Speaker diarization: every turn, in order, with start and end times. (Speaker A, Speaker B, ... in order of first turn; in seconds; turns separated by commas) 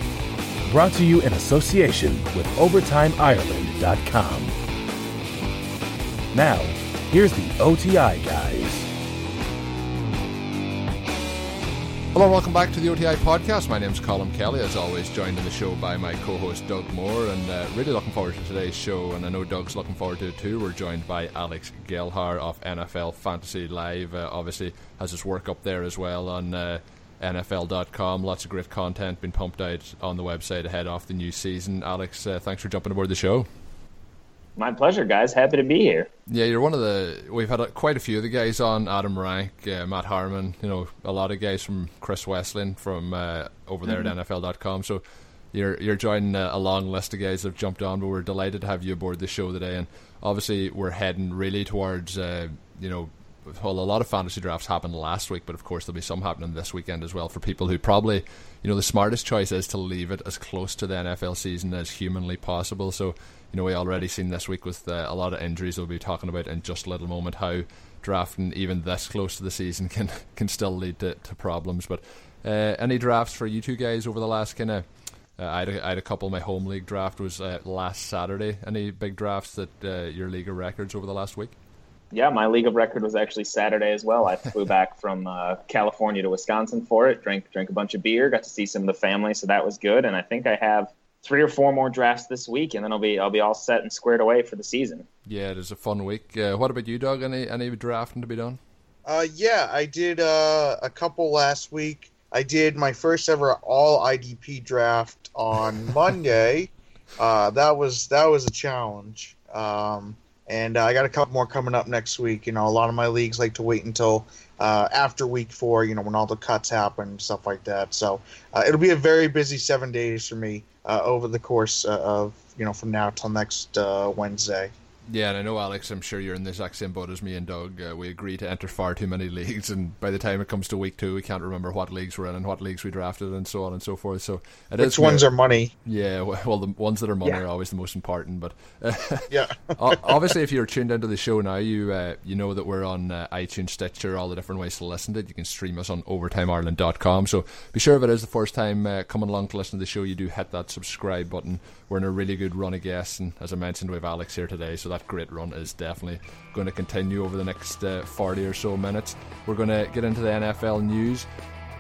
Speaker A: 0.7-4.5, Speaker A: 6.3-8.9, Speaker B: 12.1-33.5, Speaker C: 34.6-36.1, Speaker B: 36.3-45.0, Speaker B: 45.5-74.8, Speaker B: 75.4-81.5, Speaker C: 82.1-95.1, Speaker B: 95.3-98.6, Speaker D: 99.1-124.7, Speaker B: 125.1-135.2, Speaker D: 134.8-135.7, Speaker B: 135.8-161.3, Speaker D: 139.3-140.2